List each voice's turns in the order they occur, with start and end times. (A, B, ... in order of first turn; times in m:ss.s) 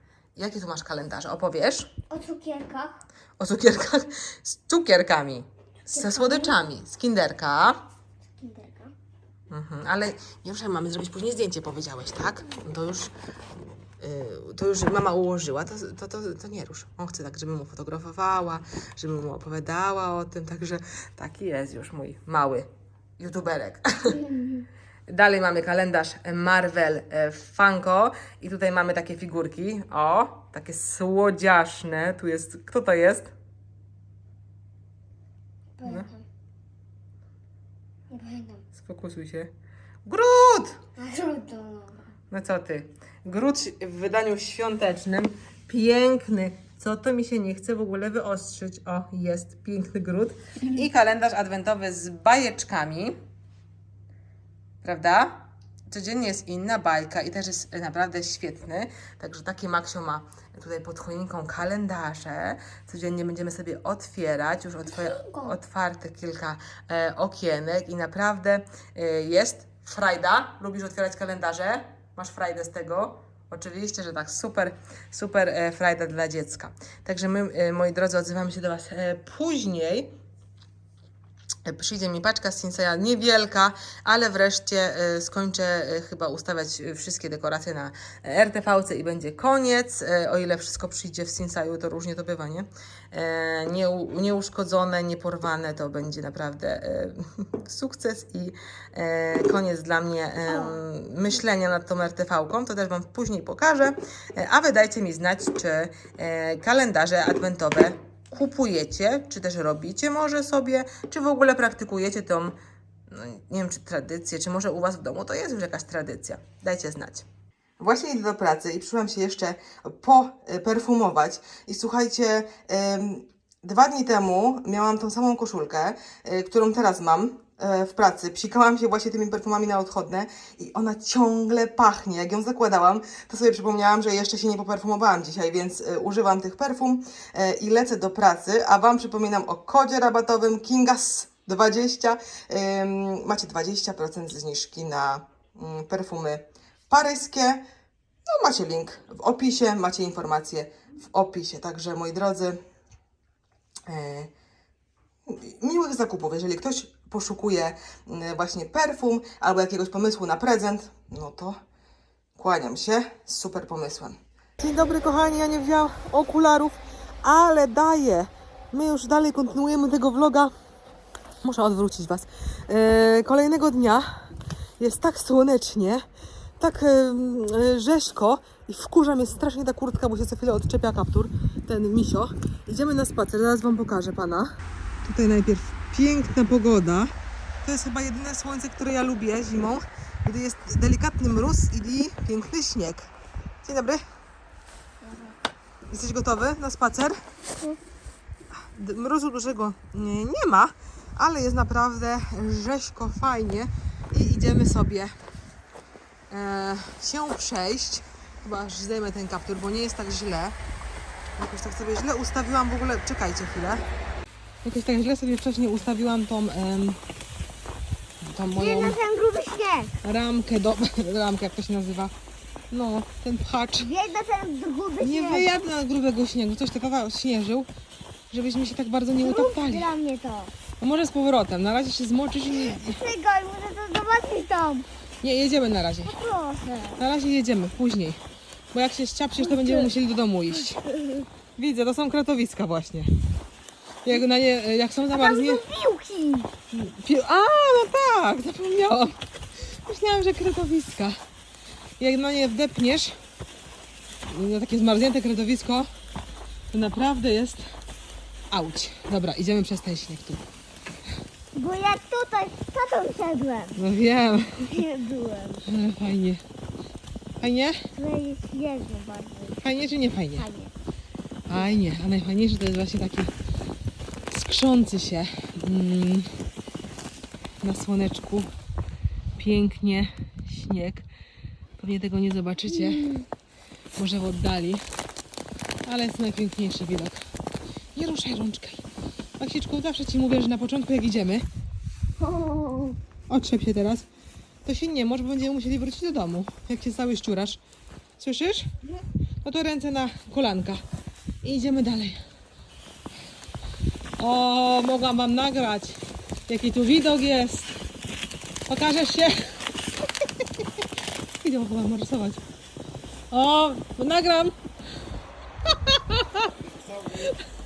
0:00.4-0:01.9 A
0:02.1-0:03.0 B
0:03.4-0:07.8 A
0:05.9-0:06.6 B
0:08.4-0:08.9 B
0:09.5-0:22.7 A
0:23.2-0:24.3 A
0:25.1-0:33.3 A
0:35.8-0:36.3 B
0:38.1-0:38.6 B
0:38.7-0:39.5 A
0:40.1-0:40.8 A
0:41.0-0:42.0 B
0:42.3-0:53.2 A
0:54.8-1:20.1 A
1:05.0-1:05.5 B
1:21.6-1:52.6 A
1:53.1-1:57.3 A
1:57.8-2:27.7 A
2:28.3-2:32.6 A
2:33.9-2:34.3 A
2:35.3-2:41.6 A
2:42.4-2:50.5 A
2:51.4-2:54.1 A
2:54.8-2:56.1 A
2:56.6-3:13.1 A
3:13.6-3:14.0 A
3:15.0-3:15.4 B
3:15.9-3:17.2 A
3:18.7-3:25.2 A
3:26.3-3:30.6 A
3:31.4-3:33.9 A
3:34.6-3:37.0 A
3:38.2-3:39.0 A
3:38.5-3:40.0 B
3:40.0-3:42.1 A
3:42.7-3:43.9 A
3:43.8-3:45.5 B
3:45.0-3:47.7 A
3:48.3-3:49.9 A
3:49.2-3:50.5 B
3:50.8-3:53.0 A
3:52.5-3:54.9 B
3:55.2-3:56.2 A
3:56.0-3:57.0 B
3:57.0-3:58.2 A
3:58.7-4:00.8 A
3:59.4-3:59.9 B
4:00.6-4:01.3 B
4:01.6-4:03.1 A
4:04.0-4:05.6 A
4:05.1-4:06.5 B
4:06.7-4:09.2 A
4:09.7-4:11.2 A
4:12.0-4:13.2 A
4:14.3-4:15.9 A
4:16.7-4:17.6 A
4:18.5-4:20.4 A
4:21.5-4:23.8 B
4:23.8-4:24.8 A
4:24.6-4:25.7 B
4:25.6-4:26.4 A
4:27.4-4:27.8 A
4:28.0-4:29.7 B
4:29.6-4:30.5 A
4:30.4-4:30.8 B
4:31.5-4:33.3 A
4:34.3-4:36.3 A
4:37.6-4:38.5 A
4:39.4-4:41.0 A
4:41.8-4:43.2 A
4:42.9-4:43.2 B
4:44.0-4:44.8 A
4:45.8-4:47.2 A
4:47.9-4:48.9 A
4:49.4-4:51.5 A
4:52.2-4:53.0 B
4:53.3-4:54.0 A
4:54.6-4:57.6 A
4:58.2-4:58.7 A
4:59.4-5:00.8 A
5:01.4-5:02.2 A
5:04.2-5:07.8 A
5:08.7-5:09.6 A
5:10.4-5:10.6 A
5:11.4-5:12.4 A
5:13.3-5:14.6 A
5:15.6-5:16.5 A
5:17.1-5:17.4 A